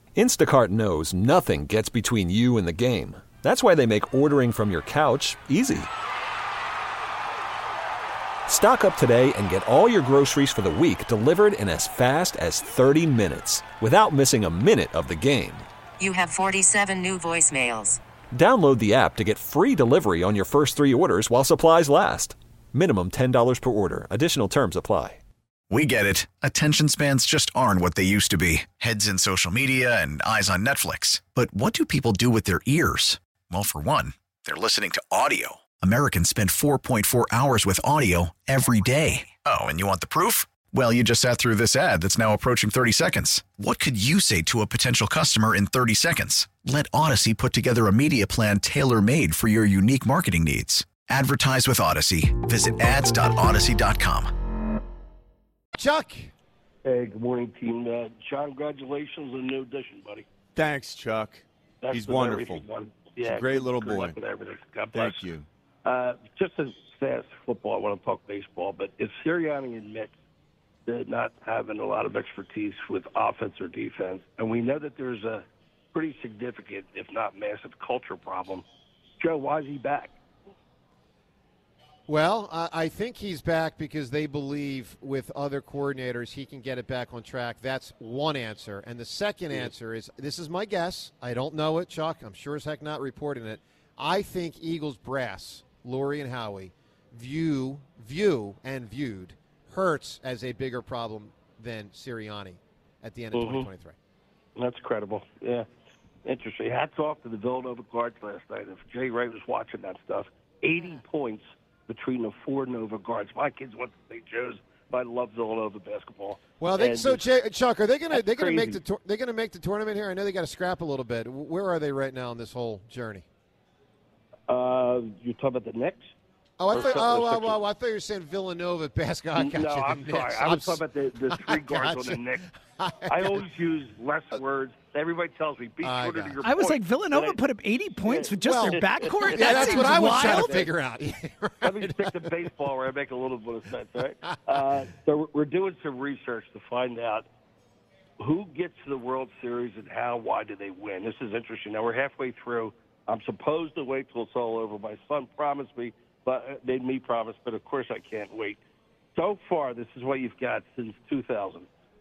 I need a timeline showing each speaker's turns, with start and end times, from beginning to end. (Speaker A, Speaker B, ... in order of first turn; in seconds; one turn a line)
Speaker A: 0.1-5.9
Speaker A: 8.5-15.7
Speaker B: 16.0-18.0
Speaker A: 18.3-25.2
Speaker C: 25.7-54.3
Speaker D: 55.7-56.3
Speaker E: 56.8-60.2
Speaker F: 60.5-62.6
Speaker E: 61.8-65.2
Speaker F: 63.2-64.2
Speaker F: 64.9-65.5
Speaker E: 65.8-70.1
Speaker E: 70.9-78.6
Speaker E: 79.2-80.1
Speaker D: 82.1-103.9
Speaker E: 103.3-103.7
Speaker E: 104.5-105.7
Speaker E: 106.2-117.2
Speaker D: 116.6-123.2
Speaker E: 118.1-118.8
Speaker E: 124.5-126.1
Speaker D: 126.6-133.5
Speaker E: 126.7-127.6
Speaker E: 129.4-132.4
Speaker E: 133.1-137.4
Speaker D: 135.8-136.4
Speaker G: 136.4-140.7
Speaker E: 138.0-140.7
Speaker D: 138.4-142.2
Speaker E: 141.6-147.3
Speaker E: 148.2-158.6
Speaker E: 159.1-161.7